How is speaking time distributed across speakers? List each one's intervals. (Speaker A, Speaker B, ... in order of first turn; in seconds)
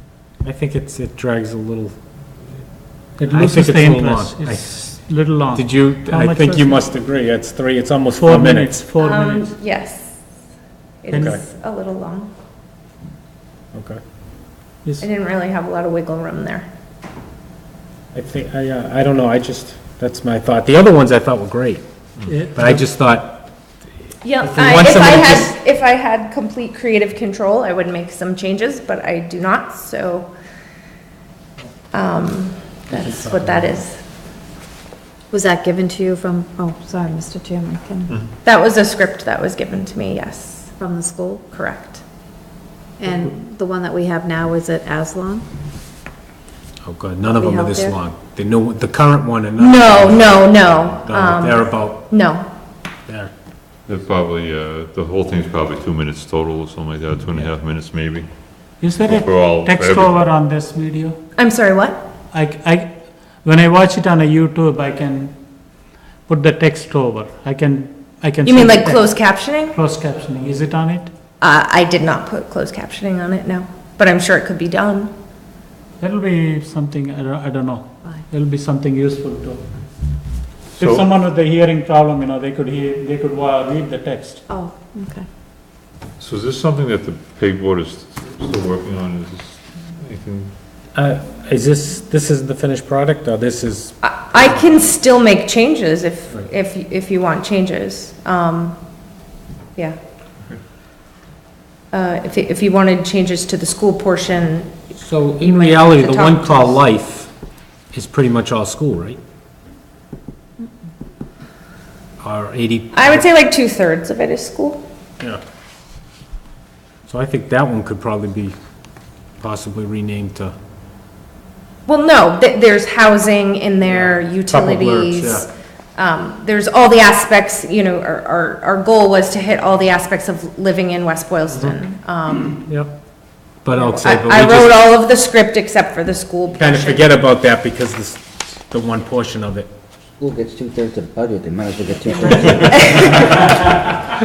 Speaker A: 0.4-1.9, 3.3-5.0, 5.5-8.8, 11.1-11.4, 13.7-14.0, 18.1-21.8, 22.5-23.4, 24.4-25.5, 32.9-33.8, 46.9-52.0, 90.9-94.7, 105.0-107.3, 107.9-109.2, 112.2-113.2, 117.1-118.6, 119.4-120.5, 123.8-125.5, 131.5-131.8, 133.6-134.7, 136.6-139.7
Speaker B: 3.2-6.8, 8.2-9.5, 22.3-22.8, 58.8-61.2, 62.3-65.4, 66.3-69.1, 69.6-71.1, 76.0-79.7, 80.8-84.4
Speaker C: 9.0-10.2, 11.0-12.3, 15.0-16.7, 24.2-30.3, 31.9-34.0, 38.5-40.8, 41.5-42.0, 49.6-52.5, 61.4-62.0, 68.5-69.8, 71.4-75.1, 94.0-98.8, 101.9-104.8, 105.4-106.8, 112.9-114.8, 121.9-132.6, 134.0-137.1, 142.6-143.1
Speaker D: 35.3-38.1, 40.8-41.5, 43.0-45.5, 47.4-47.9, 84.5-85.2
Speaker E: 53.9-58.3, 58.9-60.3, 80.8-81.1, 86.2-90.5
Speaker F: 140.2-143.6